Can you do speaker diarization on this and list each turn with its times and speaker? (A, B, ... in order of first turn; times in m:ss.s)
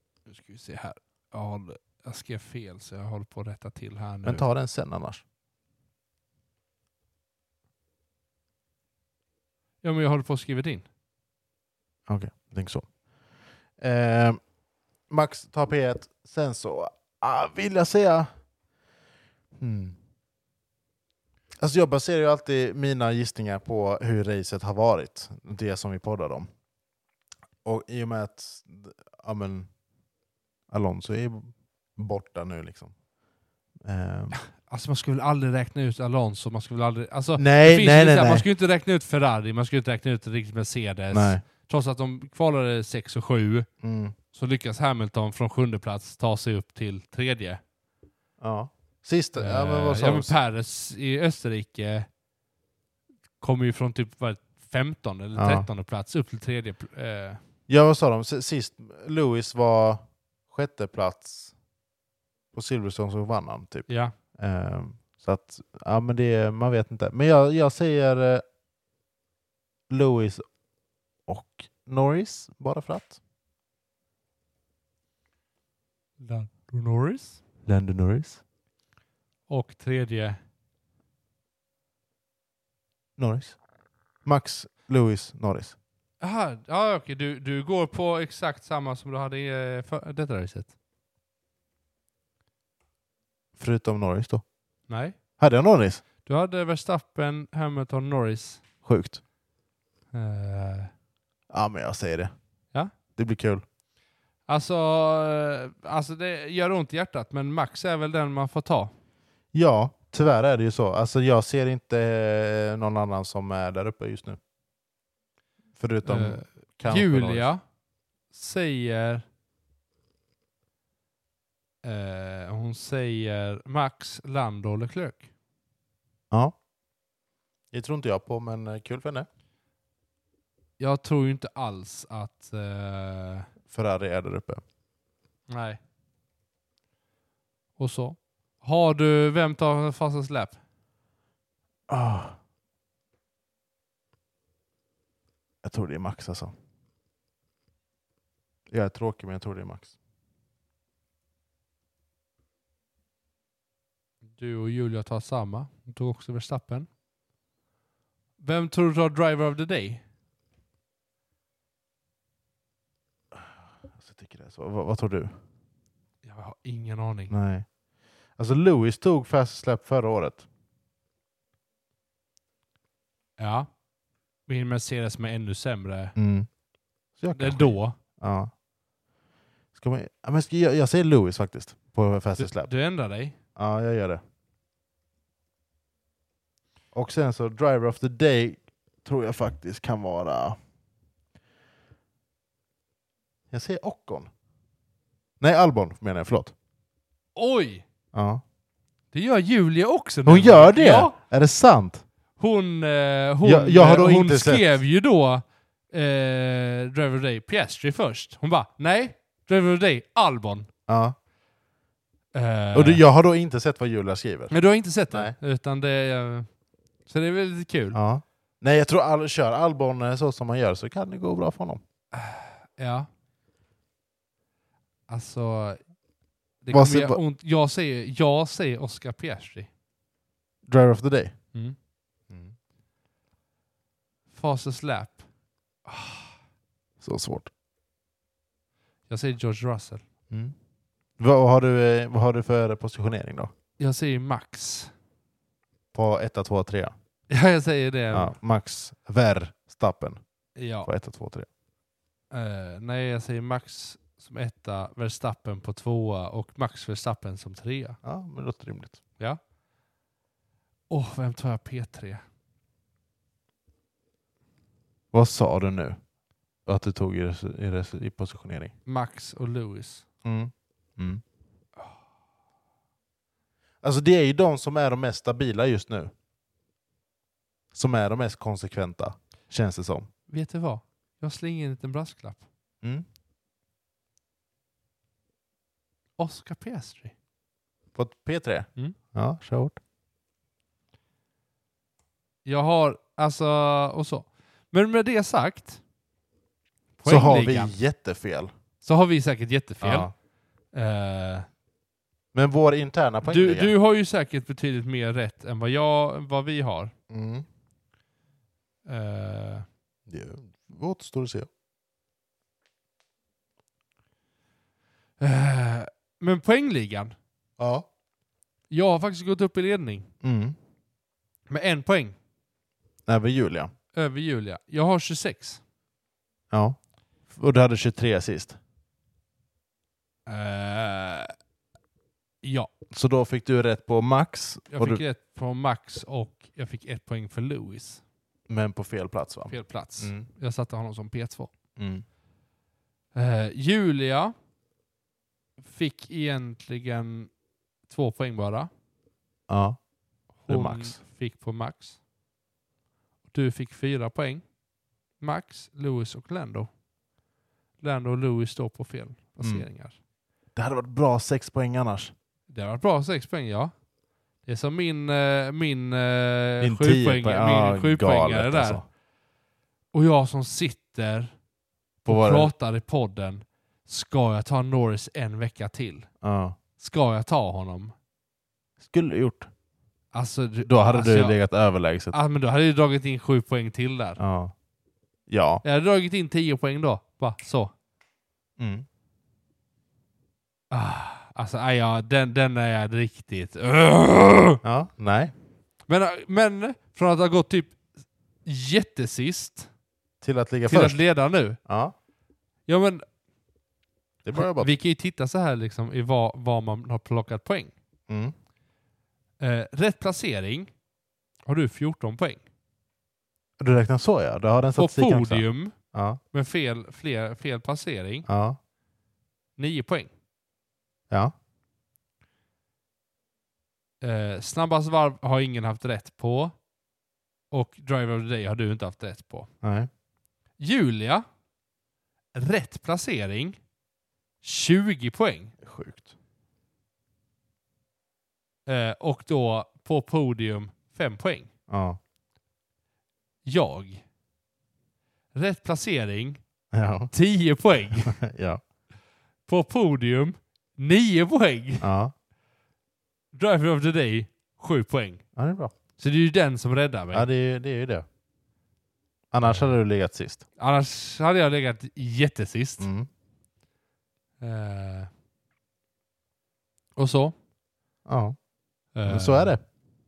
0:00.3-0:04.5 A
0:04.2-0:05.2 B
0:09.8-0:10.9 A
0:12.1-0:13.0 B
0:13.7-0:18.5 B
0:19.6-0:20.0 B
0:21.6-0:26.5 B
0:27.6-0:29.8 B
0:30.7-0:33.0 B
0:33.8-0:34.4 B
0:34.3-0:43.7 A
0:37.4-0:38.5 B
0:41.1-0:41.4 B
0:43.8-0:44.2 B
0:44.3-0:47.6 A
0:48.4-0:50.4 B
0:49.4-0:52.1 A
0:53.4-0:57.4 A
0:55.4-0:55.7 B
0:57.7-1:01.6 B
1:02.5-1:08.4 B
1:03.9-1:04.2 A
1:09.9-1:10.6 B
1:11.2-1:13.2 B
1:16.2-1:17.4 A
1:17.6-1:18.4 B
1:19.5-1:20.4 A
1:23.2-1:25.8 B
1:26.2-1:30.8 A
1:33.6-1:36.0 B
1:34.9-1:35.2 A
1:36.2-1:38.6 A
1:38.8-1:39.2 B
1:40.1-1:40.9 A
1:41.5-1:43.6 B
1:44.5-1:48.9 A
1:49.5-1:54.4 B
1:55.8-1:57.5 B
1:56.0-1:57.6 A
1:58.3-1:59.2 A
2:01.8-2:05.3 A
2:06.3-2:06.6 B
2:07.7-2:09.3 B
2:10.8-2:13.5 A
2:13.6-2:14.6 B
2:15.5-2:15.8 A
2:17.8-2:20.6 A
2:21.9-2:22.4 B
2:25.6-2:26.5 B
2:28.7-2:29.9 B
2:34.3-2:36.9 A
2:38.4-2:40.0 A
2:43.3-2:45.4 B
2:46.2-2:47.3 A
2:47.3-2:50.4 B
2:53.4-2:53.9 A
2:54.4-2:56.2 A
2:56.2-2:58.5 B
2:57.4-2:58.0 A
2:59.7-3:02.9 B
3:02.4-3:03.4 A
3:03.6-3:04.2 B
3:06.9-3:10.6 B
3:13.5-3:14.3 B
3:15.4-3:16.5 B
3:17.4-3:17.8 A
3:18.1-3:18.4 B
3:19.1-3:21.2 A
3:20.2-3:22.0 B
3:22.4-3:30.7 A
3:23.4-3:24.8 B
3:30.9-3:31.2 B
3:32.3-3:33.0 A
3:32.7-3:35.4 B
3:34.5-3:38.0 A
3:37.9-3:41.8 B
3:42.1-3:43.1 A
3:45.1-3:45.9 A
3:46.6-3:49.7 A
3:46.7-3:47.2 B
3:50.7-3:51.5 B
3:52.3-3:52.6 B
3:54.3-3:55.2 A
3:55.8-3:56.3 A
3:57.0-3:57.5 B
3:59.1-4:00.0 A
4:00.3-4:00.6 B
4:01.2-4:03.5 B
4:03.8-4:04.9 A
4:05.9-4:06.9 B
4:07.3-4:08.4 A
4:08.1-4:11.5 B
4:10.6-4:10.9 A
4:12.3-4:18.0 A
4:18.0-4:19.0 B
4:20.9-4:22.2 A
4:25.1-4:28.7 B
4:28.9-4:30.1 A
4:30.2-4:31.2 B
4:33.8-4:36.1 B
4:37.7-4:40.1 B
4:40.3-4:42.4 A
4:46.2-4:47.1 A
4:48.0-4:49.8 B
4:52.4-4:55.8 A
4:57.0-4:57.7 A
4:57.1-4:58.5 B
4:58.8-5:01.5 A
4:59.8-5:00.1 B
5:02.3-5:03.7 B
5:03.2-5:06.9 A
5:07.1-5:07.5 B
5:08.8-5:09.7 A
5:10.1-5:11.5 B
5:15.2-5:17.1 A
5:17.6-5:17.9 B
5:18.7-5:20.1 A
5:20.2-5:20.6 B
5:21.5-5:22.2 A
5:23.1-5:23.7 B
5:23.9-5:25.6 A
5:26.5-5:28.6 B
5:30.3-5:31.3 A
5:32.4-5:32.7 A
5:32.9-5:35.0 B
5:34.7-5:38.0 A
5:38.5-5:40.3 B
5:39.5-5:41.5 A
5:41.8-5:42.0 B
5:43.1-5:44.3 A
5:45.6-5:48.7 A
5:49.5-5:51.0 B
5:50.4-5:52.0 A
5:53.3-5:54.6 A
5:55.2-5:56.8 A
5:57.8-6:00.0 A
5:59.4-5:59.7 B
6:00.5-6:02.1 B
6:02.5-6:09.0 A
6:06.6-6:08.8 B
6:09.9-6:11.4 A
6:12.0-6:16.1 A
6:12.1-6:12.5 B
6:16.2-6:16.6 B
6:16.8-6:17.9 A
6:18.8-6:19.5 B
6:20.1-6:24.2 A
6:20.6-6:22.2 B
6:24.2-6:24.6 B
6:25.3-6:25.6 B
6:25.6-6:27.7 A
6:28.6-6:28.9 B
6:30.7-6:34.6 A
6:34.6-6:35.3 B
6:35.9-6:39.7 A
6:40.2-6:41.9 B
6:40.7-6:41.6 A
6:42.7-6:43.0 A
6:44.2-6:44.7 B
6:44.3-6:47.7 A
6:48.1-6:48.3 B
6:49.4-6:50.7 A
6:51.4-6:52.4 A
6:53.6-6:56.2 B
6:54.8-6:58.3 A
6:58.3-6:58.6 B
6:59.6-7:00.1 A
7:04.0-7:06.7 A
7:07.5-7:09.5 A
7:09.6-7:09.9 B
7:10.6-7:11.2 A
7:12.3-7:13.6 A
7:14.4-7:15.5 A
7:15.6-7:16.1 B
7:18.7-7:21.5 A
7:21.7-7:22.0 B
7:23.4-7:24.0 A
7:25.3-7:26.4 A
7:26.7-7:27.1 B
7:27.1-7:28.2 A
7:28.0-7:28.6 B
7:29.5-7:31.9 A
7:31.8-7:32.1 B
7:33.3-7:35.3 A
7:35.4-7:35.7 B
7:36.0-7:37.3 A
7:37.1-7:38.0 B
7:39.3-7:40.4 B
7:39.4-7:39.8 A
7:40.6-7:42.9 A
7:42.8-7:43.1 B
7:44.4-7:45.1 A
7:47.0-7:47.3 A
7:48.0-7:49.6 B
7:48.9-7:49.6 A